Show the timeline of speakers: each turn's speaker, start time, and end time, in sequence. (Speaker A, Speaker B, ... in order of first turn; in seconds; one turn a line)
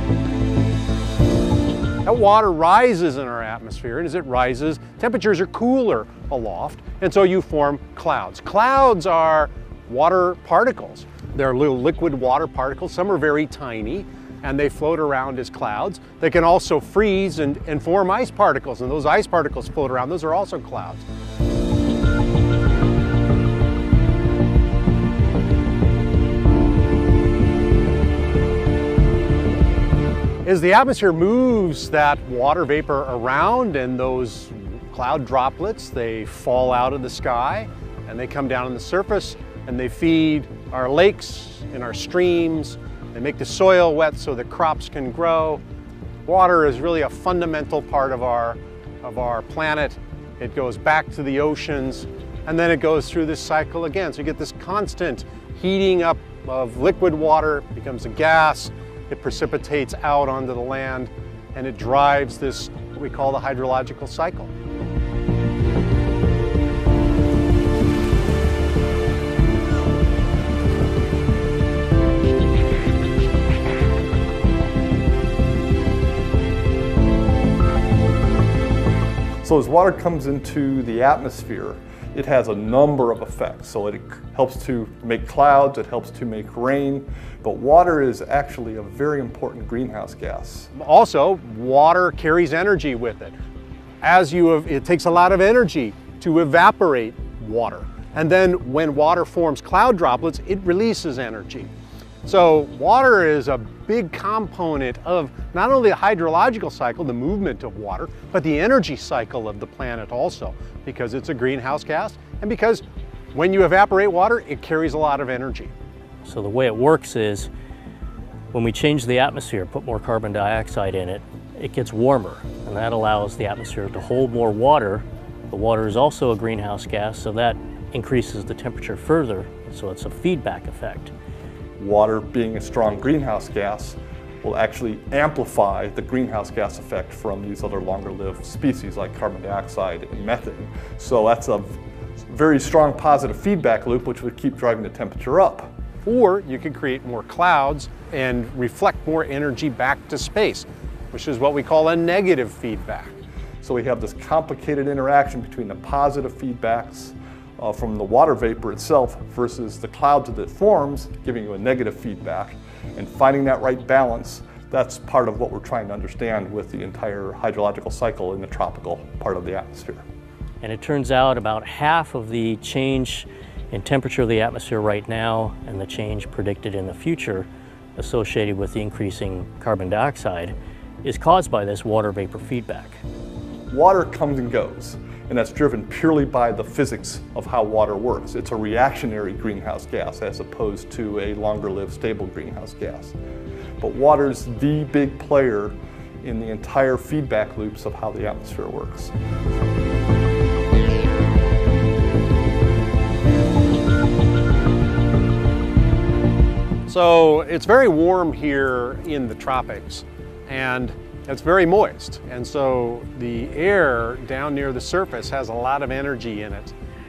Speaker A: 2.0-21.0
Speaker A: 30.4-45.6
Speaker A: 46.3-64.5
Speaker B: 79.4-90.7
Speaker A: 90.7-93.4
Speaker A: 94.0-101.7
Speaker A: 102.2-112.8
Speaker A: 113.3-115.7
Speaker C: 116.2-117.5
Speaker C: 118.5-131.1
Speaker B: 131.8-145.7
Speaker A: 146.1-153.2
Speaker B: 153.6-170.0
Speaker C: 170.6-183.0
Speaker B: 183.7-193.2
Speaker B: 193.8-199.1
Speaker A: 206.9-216.7